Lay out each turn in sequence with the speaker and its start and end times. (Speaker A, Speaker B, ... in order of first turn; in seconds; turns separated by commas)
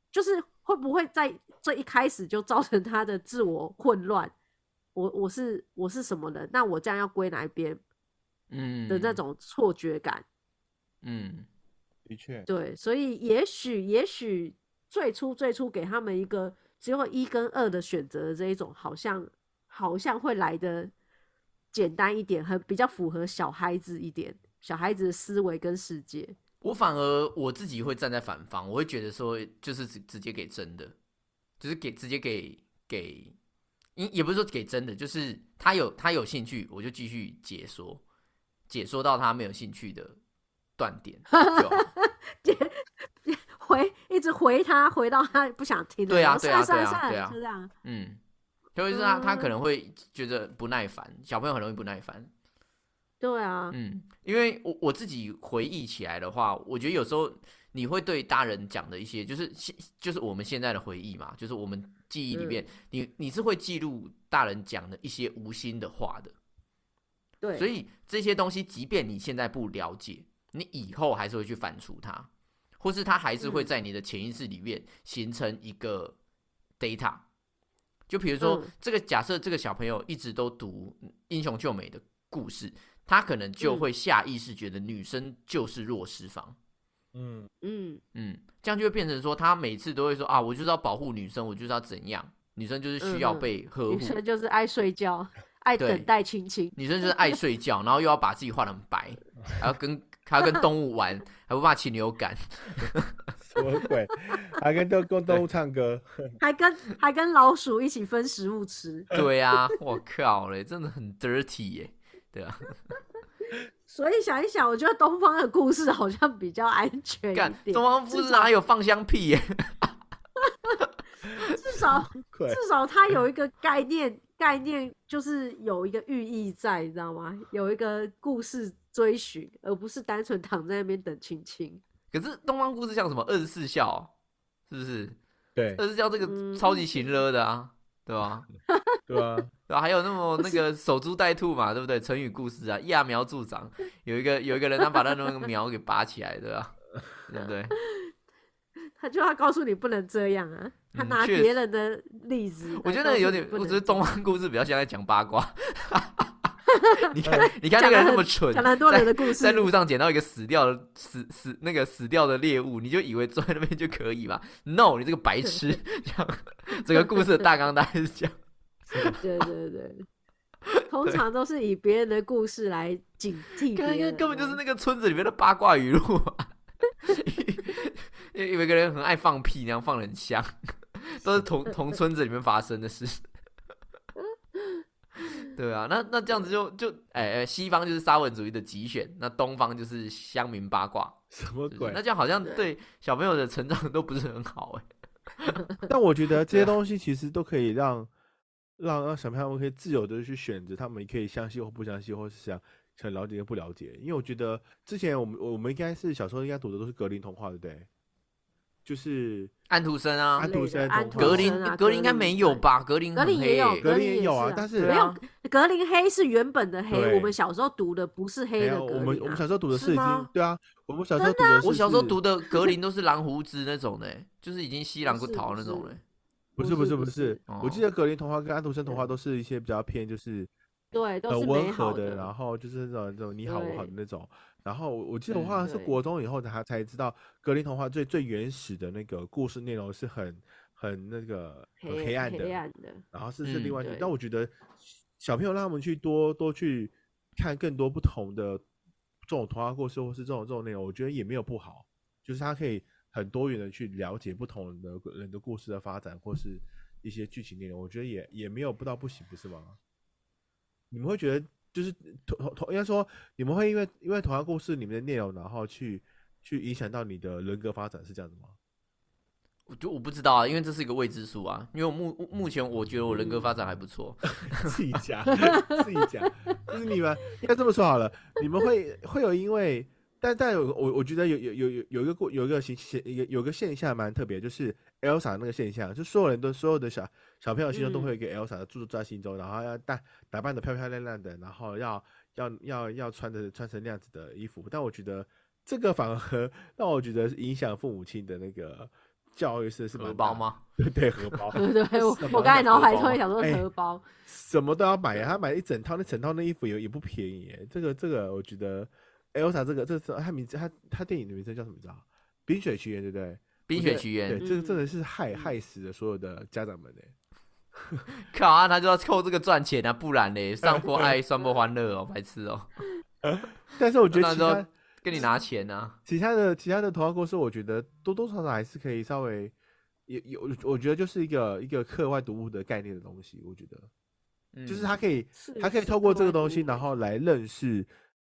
Speaker A: 0.1-4.3, Speaker A: 5.0-7.8, Speaker B: 8.5-9.2, Speaker A: 8.9-10.2, Speaker B: 11.0-11.5, Speaker C: 12.1-12.5, Speaker A: 12.5-20.9, Speaker A: 21.7-26.4, Speaker B: 26.6-30.9, Speaker B: 31.6-33.3, Speaker B: 34.0-38.0, Speaker B: 38.7-40.2, Speaker B: 40.8-41.9, Speaker A: 41.3-47.7, Speaker B: 46.1-48.2, Speaker B: 48.8-52.3, Speaker A: 48.9-49.5, Speaker A: 53.2-53.8, Speaker B: 53.7-66.3, Speaker A: 62.3-62.6, Speaker A: 67.4-67.7, Speaker B: 67.6-76.2, Speaker A: 73.4-73.7, Speaker B: 76.8-77.2, Speaker B: 78.1-86.6, Speaker A: 78.4-78.7, Speaker A: 83.6-83.9, Speaker C: 87.1-87.5, Speaker A: 87.6-88.0, Speaker B: 88.2-94.2, Speaker A: 93.0-97.4, Speaker B: 95.8-96.1, Speaker B: 96.8-103.1, Speaker C: 103.4-106.4, Speaker A: 106.4-109.1, Speaker B: 109.1-112.8, Speaker A: 113.9-118.5, Speaker B: 117.3-119.9, Speaker A: 120.4-120.8, Speaker A: 121.5-131.8, Speaker C: 122.2-123.2, Speaker B: 132.1-134.1, Speaker B: 134.7-135.2, Speaker C: 135.6-135.8, Speaker B: 135.8-138.5, Speaker A: 136.2-137.1, Speaker A: 138.7-139.0, Speaker C: 139.1-139.5, Speaker B: 139.7-147.8, Speaker A: 147.8-148.1, Speaker A: 149.0-154.1, Speaker B: 150.9-151.6, Speaker B: 152.8-168.3, Speaker A: 156.7-159.7, Speaker C: 168.9-169.2, Speaker B: 168.9-169.2, Speaker A: 169.2-170.1, Speaker B: 170.7-171.2, Speaker A: 170.9-174.6, Speaker B: 173.7-176.5, Speaker B: 177.0-183.2, Speaker A: 184.6-184.8, Speaker B: 185.5-194.8, Speaker C: 191.3-192.0, Speaker C: 195.9-198.1, Speaker C: 198.8-207.9, Speaker C: 208.8-209.5, Speaker B: 209.7-210.5, Speaker C: 210.4-211.6, Speaker A: 210.4-212.6, Speaker B: 211.2-213.9, Speaker A: 213.2-220.3, Speaker C: 213.8-214.9, Speaker B: 214.8-215.2, Speaker C: 216.9-217.3, Speaker C: 218.6-222.2, Speaker A: 221.2-221.7, Speaker B: 221.6-226.0, Speaker A: 225.1-225.9, Speaker C: 226.6-230.5, Speaker A: 226.6-227.4, Speaker B: 227.5-227.8, Speaker A: 228.9-229.1, Speaker A: 230.9-232.3, Speaker C: 231.3-242.6, Speaker A: 233.5-233.9, Speaker B: 235.3-235.6, Speaker A: 235.6-236.0, Speaker A: 241.8-243.0, Speaker C: 243.1-248.6, Speaker B: 243.4-243.8, Speaker A: 243.8-244.1, Speaker C: 249.3-259.8, Speaker C: 260.9-268.6, Speaker B: 269.7-274.8, Speaker A: 273.1-273.5, Speaker C: 274.6-303.6, Speaker A: 275.4-276.3, Speaker A: 287.7-288.1, Speaker B: 299.9-300.6, Speaker B: 301.2-301.6, Speaker A: 301.6-304.1, Speaker B: 302.3-303.1, Speaker C: 304.3-317.1, Speaker B: 313.7-314.4, Speaker A: 314.4-315.5, Speaker C: 317.8-318.0, Speaker B: 318.3-322.7, Speaker C: 320.6-321.1, Speaker C: 323.2-324.7, Speaker B: 324.1-326.0, Speaker C: 326.1-329.5, Speaker C: 330.1-333.9, Speaker B: 334.5-334.9, Speaker C: 334.7-337.9, Speaker A: 335.4-336.9